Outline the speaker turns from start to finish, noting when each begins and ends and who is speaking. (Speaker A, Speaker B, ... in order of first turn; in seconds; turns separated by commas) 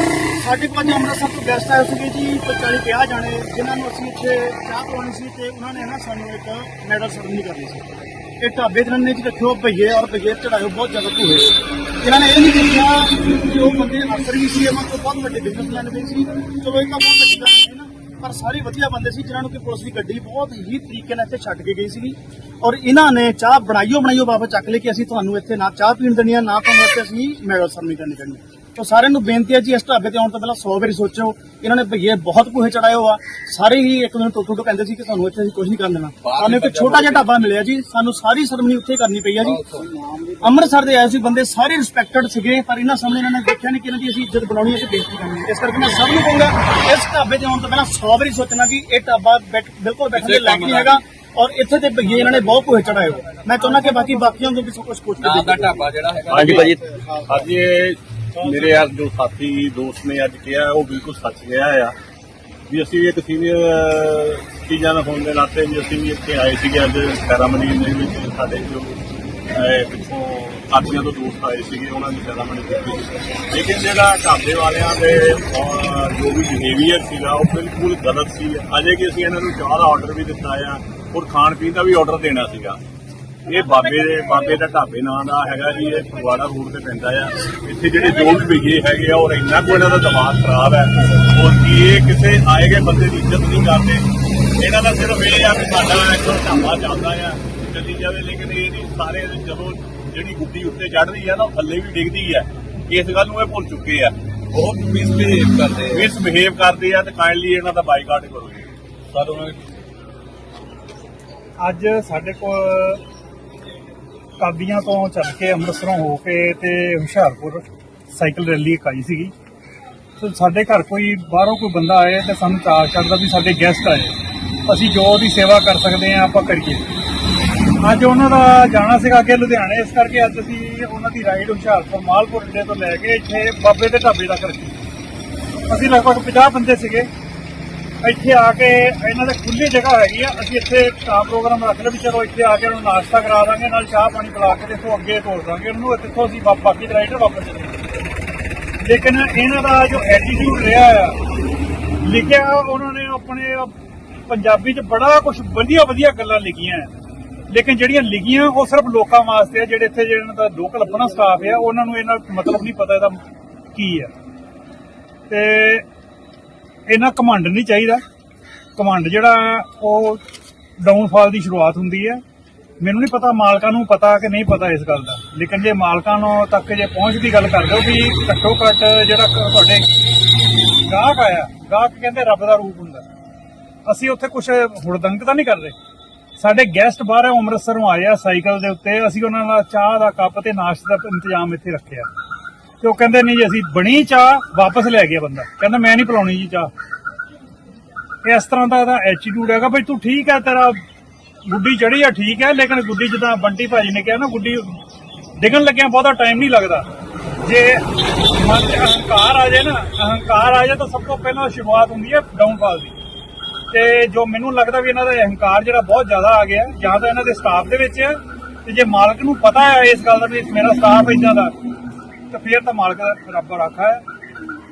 Speaker A: 0.4-11.5, Speaker A: 12.0-39.6, Speaker B: 36.2-37.5, Speaker B: 39.5-40.3, Speaker A: 40.4-55.9, Speaker B: 50.1-51.0, Speaker B: 55.2-57.3, Speaker C: 56.3-61.9, Speaker B: 58.5-58.8, Speaker C: 62.7-69.0, Speaker C: 69.5-82.8, Speaker C: 83.5-104.2, Speaker B: 104.5-106.1, Speaker C: 105.9-108.7, Speaker B: 109.1-109.7, Speaker D: 111.6-113.0, Speaker D: 114.4-119.3, Speaker D: 120.2-126.9, Speaker D: 127.8-134.8, Speaker D: 135.7-137.1, Speaker D: 138.0-147.8, Speaker D: 148.8-151.2, Speaker D: 152.0-153.7, Speaker D: 154.3-156.9, Speaker D: 157.5-163.2, Speaker D: 163.7-164.1, Speaker D: 165.3-165.8, Speaker D: 166.9-168.0, Speaker D: 168.8-170.2, Speaker D: 170.8-172.2, Speaker D: 172.8-179.9, Speaker D: 180.8-183.0, Speaker D: 183.8-185.8, Speaker D: 186.4-192.1, Speaker D: 192.8-196.7, Speaker D: 198.2-200.8, Speaker D: 201.4-204.8, Speaker D: 205.4-206.9, Speaker D: 207.4-212.9, Speaker D: 213.7-221.5, Speaker D: 222.3-224.0